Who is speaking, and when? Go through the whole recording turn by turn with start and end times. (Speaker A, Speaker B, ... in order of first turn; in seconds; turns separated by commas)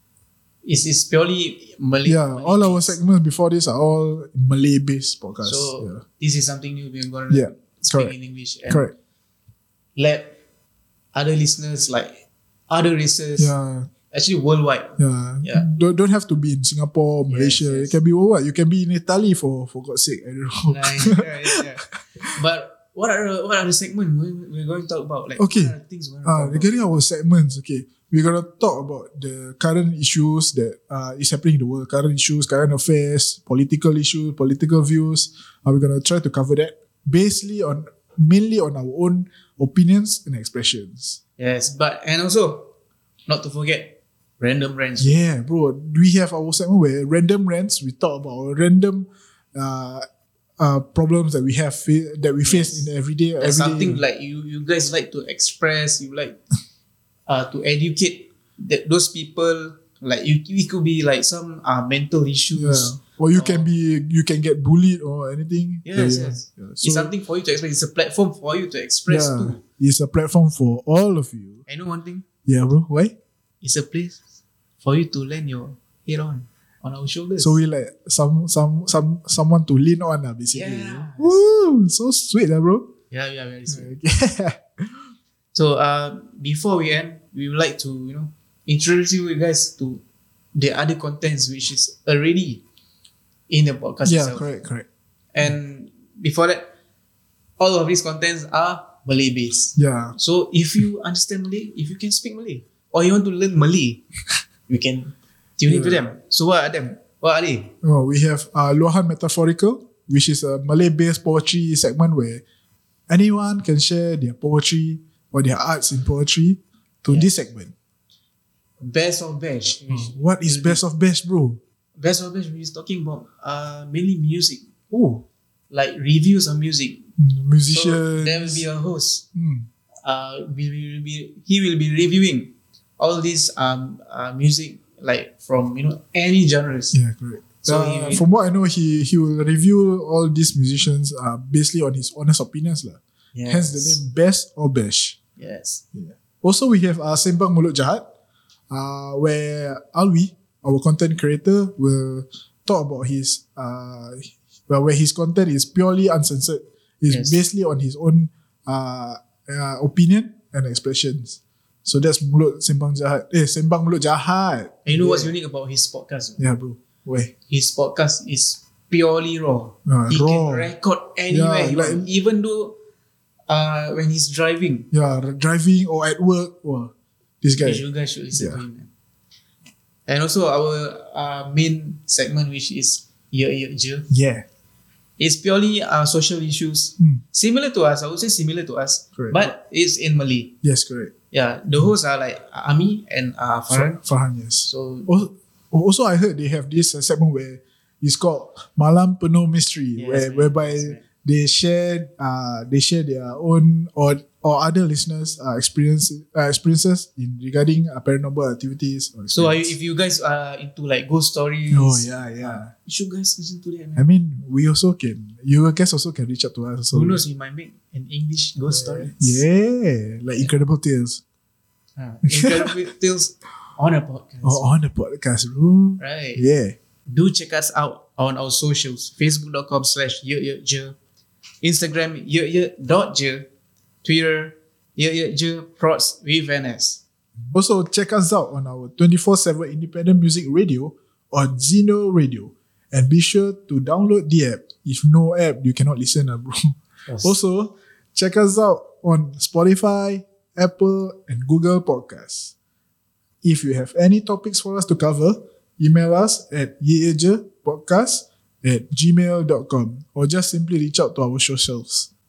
Speaker A: 0.6-3.0, Speaker B: 2.0-6.0, Speaker A: 5.4-8.9, Speaker B: 7.3-8.1, Speaker A: 9.9-10.4, Speaker A: 11.1-13.5, Speaker B: 13.4-13.9, Speaker A: 14.1-15.7, Speaker B: 15.0-21.6, Speaker A: 17.3-18.0, Speaker A: 20.7-26.7, Speaker B: 25.4-41.2, Speaker A: 41.4-42.7, Speaker A: 43.3-45.2, Speaker B: 45.0-50.0, Speaker B: 50.6-54.0, Speaker A: 52.4-56.4, Speaker A: 57.3-63.7, Speaker B: 62.5-67.1, Speaker A: 65.8-69.6, Speaker B: 69.1-71.6, Speaker A: 71.7-72.2, Speaker B: 72.5-73.2, Speaker A: 73.6-74.2, Speaker A: 74.8-77.6, Speaker B: 77.4-82.9, Speaker A: 80.5-81.4, Speaker A: 83.1-83.9, Speaker B: 83.7-85.0, Speaker A: 85.5-90.0, Speaker A: 90.5-92.6, Speaker A: 93.5-94.5, Speaker B: 94.0-94.9, Speaker A: 95.3-96.7, Speaker A: 97.6-104.0, Speaker B: 99.8-100.2, Speaker A: 104.7-107.7, Speaker B: 105.6-106.0, Speaker B: 107.8-112.4, Speaker B: 113.1-117.7, Speaker A: 117.1-117.3, Speaker A: 118.8-120.8, Speaker B: 119.9-121.6, Speaker A: 122.0-124.7, Speaker B: 124.9-125.2, Speaker A: 125.7-127.0, Speaker B: 127.2-128.7, Speaker A: 127.7-129.2, Speaker B: 129.3-129.7, Speaker A: 130.0-136.9, Speaker B: 136.9-145.2, Speaker A: 137.6-138.3, Speaker A: 143.3-144.0, Speaker A: 145.4-145.8, Speaker B: 145.9-148.0, Speaker B: 148.7-165.3, Speaker A: 157.1-157.5, Speaker A: 164.8-166.4, Speaker B: 166.4-167.3, Speaker A: 167.5-172.8, Speaker B: 169.9-170.7, Speaker B: 171.3-172.1, Speaker A: 173.5-174.9, Speaker B: 174.9-178.6, Speaker A: 177.6-178.9, Speaker A: 180.1-184.1, Speaker B: 184.1-184.4, Speaker A: 185.2-190.5, Speaker B: 189.2-189.5, Speaker B: 190.6-191.1, Speaker A: 191.3-194.0, Speaker B: 193.7-209.7, Speaker A: 194.6-195.2, Speaker A: 199.9-201.0, Speaker A: 209.3-214.1, Speaker B: 211.7-212.7, Speaker B: 213.9-217.2, Speaker A: 216.9-219.5, Speaker B: 218.7-221.2, Speaker A: 222.0-224.7, Speaker B: 222.2-222.7, Speaker B: 224.4-226.7, Speaker A: 226.0-226.4, Speaker A: 227.1-230.9, Speaker A: 231.6-233.5, Speaker A: 234.0-237.0, Speaker B: 237.5-252.5, Speaker A: 247.1-247.4, Speaker B: 253.4-262.1